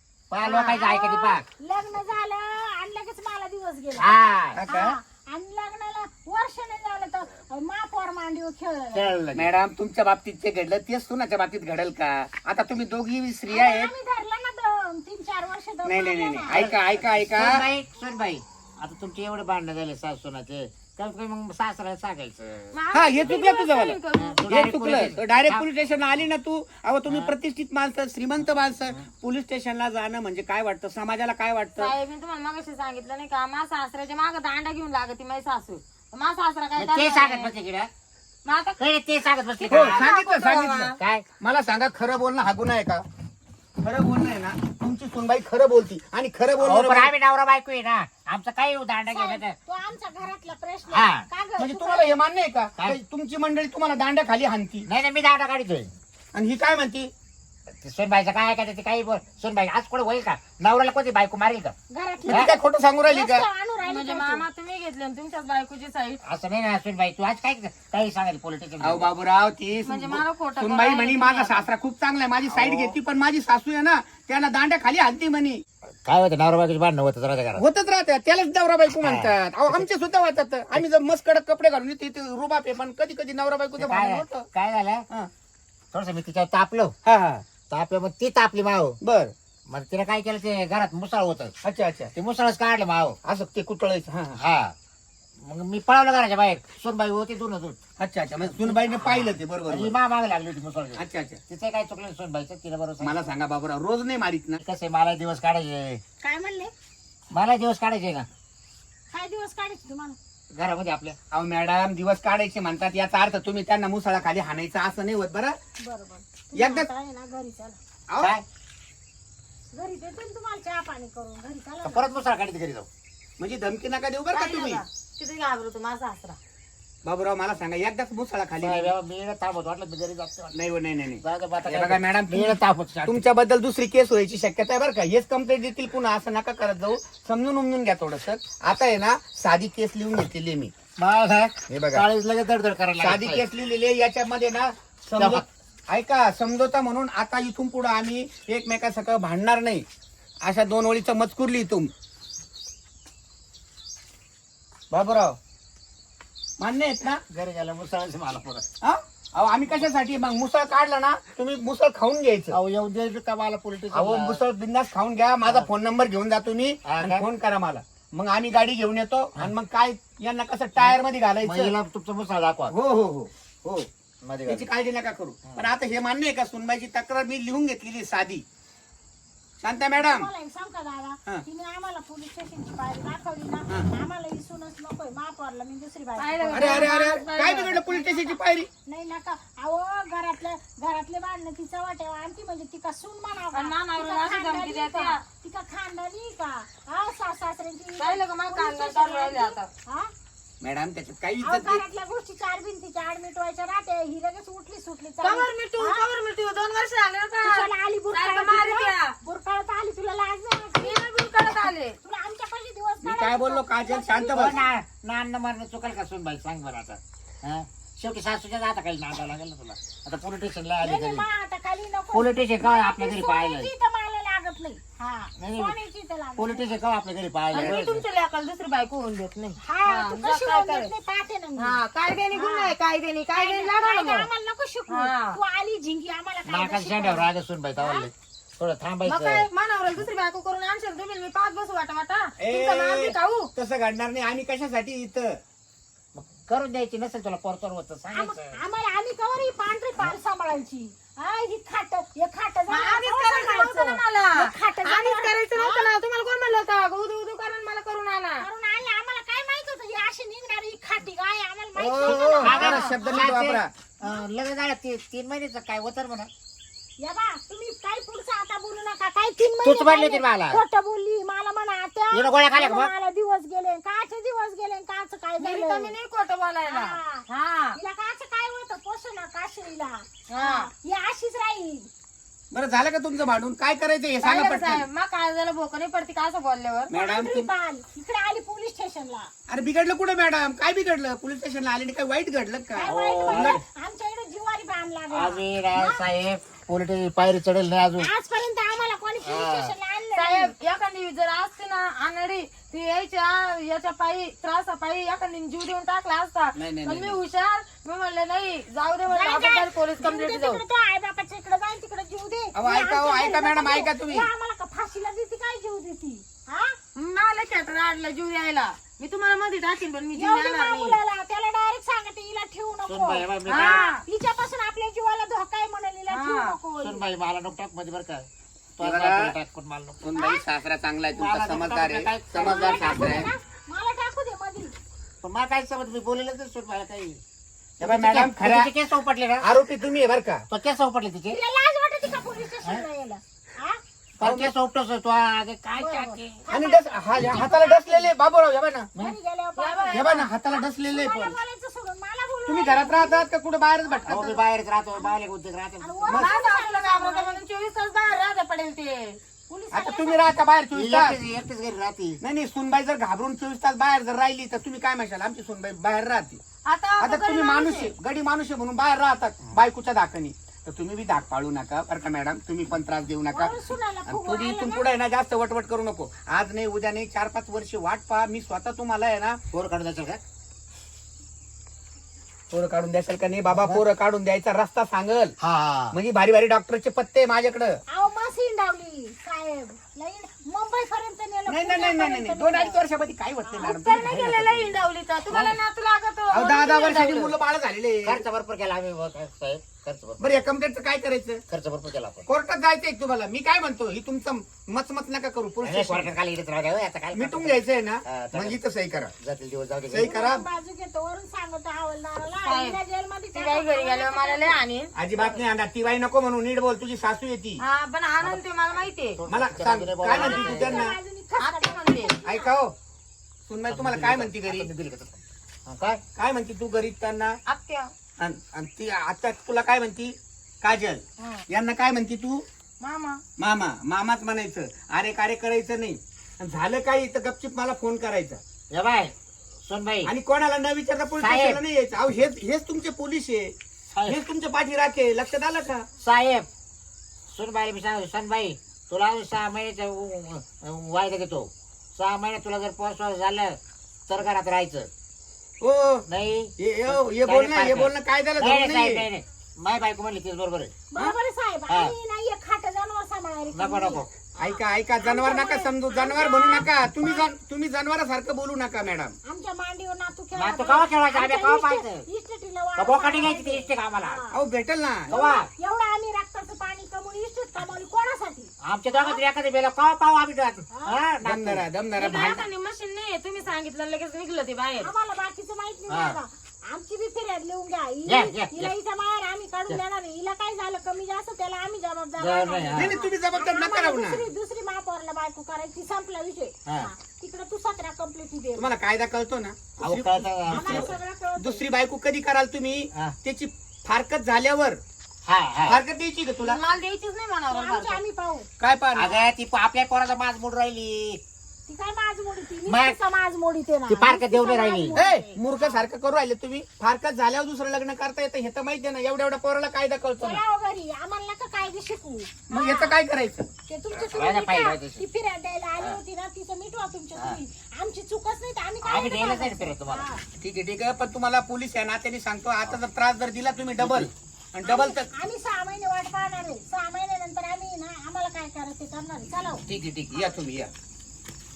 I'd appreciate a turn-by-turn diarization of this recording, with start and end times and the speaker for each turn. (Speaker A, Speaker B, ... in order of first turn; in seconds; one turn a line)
Speaker A: 0.3-1.4
Speaker B: 0.4-0.8
Speaker C: 0.5-9.1
Speaker A: 4.0-4.6
Speaker D: 4.5-4.9
Speaker A: 8.9-9.5
Speaker D: 9.3-13.9
Speaker C: 13.5-16.6
Speaker D: 15.8-17.6
Speaker A: 16.5-22.7
Speaker B: 22.7-24.5
Speaker D: 22.9-31.9
Speaker A: 24.1-25.7
Speaker A: 27.1-27.3
Speaker B: 31.8-37.5
Speaker A: 36.8-37.9
Speaker B: 38.4-38.8
Speaker A: 38.8-40.1
Speaker B: 39.6-41.0
Speaker D: 39.7-43.0
Speaker A: 41.0-41.2
Speaker D: 43.8-47.1
Speaker A: 46.6-49.6
Speaker C: 49.1-52.1
Speaker A: 50.9-51.2
Speaker D: 51.6-54.9
Speaker A: 54.9-55.9
Speaker D: 56.3-57.1
Speaker A: 57.8-61.7
Speaker C: 61.9-64.4
Speaker D: 62.3-63.5
Speaker B: 63.8-66.2
Speaker A: 66.2-69.1
Speaker D: 68.8-75.6
Speaker B: 69.8-71.7
Speaker A: 72.4-73.0
Speaker A: 76.0-77.6
Speaker D: 77.6-84.5
Speaker A: 78.9-79.9
Speaker A: 83.8-85.1
Speaker A: 85.9-87.0
Speaker D: 87.0-87.4
Speaker A: 87.7-89.0
Speaker D: 89.0-89.3
Speaker A: 89.7-91.5
Speaker D: 91.6-92.1
Speaker A: 92.1-93.2
Speaker D: 93.2-94.4
Speaker A: 94.4-94.7
Speaker A: 95.4-97.8
Speaker D: 98.0-99.9
Speaker A: 98.5-103.3
Speaker D: 101.0-101.4
Speaker D: 103.0-104.6
Speaker A: 104.6-106.0
Speaker C: 106.2-106.7
Speaker A: 107.3-108.3
Speaker C: 109.1-110.2
Speaker A: 110.5-111.2
Speaker D: 111.3-115.6
Speaker C: 115.8-117.8
Speaker D: 116.5-116.9
Speaker D: 118.1-118.3
Speaker C: 119.7-122.1
Speaker A: 121.8-122.9
Speaker D: 123.4-124.8
Speaker B: 124.3-126.4
Speaker D: 127.0-128.9
Speaker A: 128.6-130.6
Speaker D: 130.5-140.7
Speaker A: 131.2-133.2
Speaker A: 141.0-143.4
Speaker D: 141.7-142.0
Speaker D: 143.0-149.8
Speaker A: 145.2-145.4
Speaker D: 150.4-151.9
Speaker D: 154.9-155.4
Speaker D: 156.6-157.2
Speaker A: 157.3-158.7
Speaker D: 158.8-162.6
Speaker A: 162.5-164.4
Speaker D: 163.9-171.7
Speaker A: 166.8-167.2
Speaker A: 170.8-172.7
Speaker D: 172.7-173.9
Speaker A: 174.2-174.7
Speaker D: 174.5-178.4
Speaker D: 179.6-180.3
Speaker C: 179.9-187.1
Speaker B: 186.2-187.8
Speaker D: 186.5-188.7
Speaker C: 187.8-200.1
Speaker B: 193.5-195.2
Speaker B: 198.0-199.7
Speaker D: 200.6-201.8
Speaker C: 201.4-206.0
Speaker B: 205.2-209.1
Speaker C: 207.4-214.7
Speaker B: 210.8-211.9
Speaker D: 213.0-214.6
Speaker A: 214.3-221.2
Speaker C: 220.8-226.8
Speaker A: 222.1-223.7
Speaker A: 225.4-225.8
Speaker A: 226.4-228.0
Speaker B: 227.5-230.9
Speaker D: 227.5-227.8
Speaker C: 229.6-231.8
Speaker B: 231.6-234.3
Speaker C: 232.3-232.7
Speaker C: 233.3-238.1
Speaker B: 234.9-235.4
Speaker A: 236.5-239.5
Speaker B: 239.0-243.5
Speaker D: 242.4-245.4
Speaker A: 246.1-248.6
Speaker C: 248.1-255.9
Speaker B: 252.7-258.4
Speaker C: 258.4-263.3
Speaker A: 261.8-266.3
Speaker B: 261.9-262.9
Speaker D: 262.4-263.7
Speaker C: 267.0-275.9
Speaker A: 269.6-270.6
Speaker A: 272.1-272.9
Speaker B: 275.4-277.8
Speaker C: 276.6-281.9
Speaker B: 280.3-280.7
Speaker D: 282.5-284.9
Speaker B: 284.2-286.9
Speaker D: 286.9-287.5
Speaker C: 286.9-289.3
Speaker D: 289.5-293.6
Speaker C: 292.8-296.0
Speaker A: 292.8-293.6
Speaker A: 295.1-298.1
Speaker C: 298.0-300.5
Speaker A: 299.2-299.7
Speaker B: 300.1-310.6
Speaker D: 306.5-307.2
Speaker C: 309.1-316.8
Speaker D: 312.5-314.3
Speaker B: 316.9-321.0
Speaker C: 320.1-327.0
Speaker A: 322.9-323.8
Speaker B: 323.5-324.0
Speaker B: 326.1-326.6
Speaker A: 326.8-330.0
Speaker D: 328.8-329.3
Speaker D: 330.0-333.3
Speaker C: 330.1-330.4
Speaker A: 331.1-333.3
Speaker C: 332.4-334.7
Speaker A: 335.2-337.2
Speaker D: 337.8-338.7
Speaker A: 337.8-339.5
Speaker D: 339.4-340.4
Speaker A: 340.5-341.4
Speaker C: 341.3-343.8
Speaker A: 344.2-346.4
Speaker D: 344.2-344.5
Speaker C: 345.8-348.1
Speaker D: 346.5-348.9
Speaker C: 349.0-353.3
Speaker B: 349.6-350.3
Speaker D: 349.9-351.4
Speaker D: 352.5-354.4
Speaker C: 353.9-354.1
Speaker A: 354.1-356.1
Speaker C: 355.8-357.4
Speaker B: 356.1-359.2
Speaker C: 359.5-360.3
Speaker D: 359.7-361.2
Speaker A: 360.7-362.2
Speaker D: 362.2-366.4
Speaker B: 366.6-367.9
Speaker D: 367.0-373.5
Speaker C: 373.3-374.9
Speaker D: 374.1-379.4
Speaker A: 379.5-380.2
Speaker D: 382.5-385.3
Speaker A: 383.5-383.8
Speaker A: 385.4-385.9
Speaker D: 385.9-387.8
Speaker C: 387.9-392.8
Speaker D: 391.5-394.8
Speaker C: 393.4-394.2
Speaker B: 393.6-397.3
Speaker A: 395.3-395.6
Speaker D: 396.3-398.2
Speaker A: 398.0-400.5
Speaker D: 400.2-401.4
Speaker A: 401.5-402.3
Speaker D: 402.3-406.1
Speaker A: 405.6-408.6
Speaker D: 407.1-409.1
Speaker A: 409.2-410.1
Speaker D: 409.9-410.4
Speaker C: 410.0-414.6
Speaker B: 412.4-412.8
Speaker B: 413.3-415.5
Speaker D: 414.9-417.6
Speaker B: 417.6-419.2
Speaker A: 418.2-418.4
Speaker A: 419.1-420.8
Speaker D: 419.3-420.9
Speaker C: 420.1-422.5
Speaker B: 421.4-422.2
Speaker D: 422.2-422.7
Speaker D: 423.4-424.7
Speaker A: 423.7-426.0
Speaker D: 426.1-427.4
Speaker B: 427.5-427.9
Speaker D: 428.2-432.4
Speaker B: 431.2-431.4
Speaker B: 432.8-433.2
Speaker D: 433.4-438.4
Speaker A: 438.7-440.1
Speaker D: 440.0-443.5
Speaker A: 441.2-441.6
Speaker A: 443.9-444.2
Speaker D: 444.1-445.9
Speaker A: 446.0-446.5
Speaker A: 447.3-454.9
Speaker D: 455.6-456.1
Speaker A: 456.1-460.8
Speaker D: 456.6-459.1
Speaker C: 460.9-467.2
Speaker A: 461.7-461.9
Speaker A: 463.5-464.1
Speaker D: 464.4-469.2
Speaker C: 469.2-474.3
Speaker A: 470.4-472.0
Speaker A: 472.8-474.2
Speaker D: 474.3-475.1
Speaker A: 475.1-475.5
Speaker C: 475.1-479.2
Speaker A: 478.6-481.6
Speaker C: 480.7-481.0
Speaker D: 481.2-482.4
Speaker B: 482.0-484.9
Speaker C: 484.8-498.7
Speaker A: 485.9-486.2
Speaker A: 488.1-488.7
Speaker A: 492.2-492.9
Speaker D: 492.7-494.2
Speaker D: 498.6-504.8
Speaker A: 499.8-500.9
Speaker C: 500.5-501.6
Speaker A: 505.2-505.8
Speaker D: 505.6-506.6
Speaker B: 506.4-508.0
Speaker C: 507.5-508.5
Speaker D: 508.6-509.3
Speaker A: 508.9-511.2
Speaker C: 511.7-515.8
Speaker A: 512.7-513.0
Speaker A: 513.9-515.0
Speaker D: 514.9-520.4
Speaker C: 520.2-522.9
Speaker D: 522.5-523.5
Speaker C: 523.7-530.2
Speaker A: 523.9-525.0
Speaker A: 528.8-530.0
Speaker D: 530.4-535.1
Speaker A: 533.8-534.1
Speaker C: 534.6-539.6
Speaker D: 539.7-540.7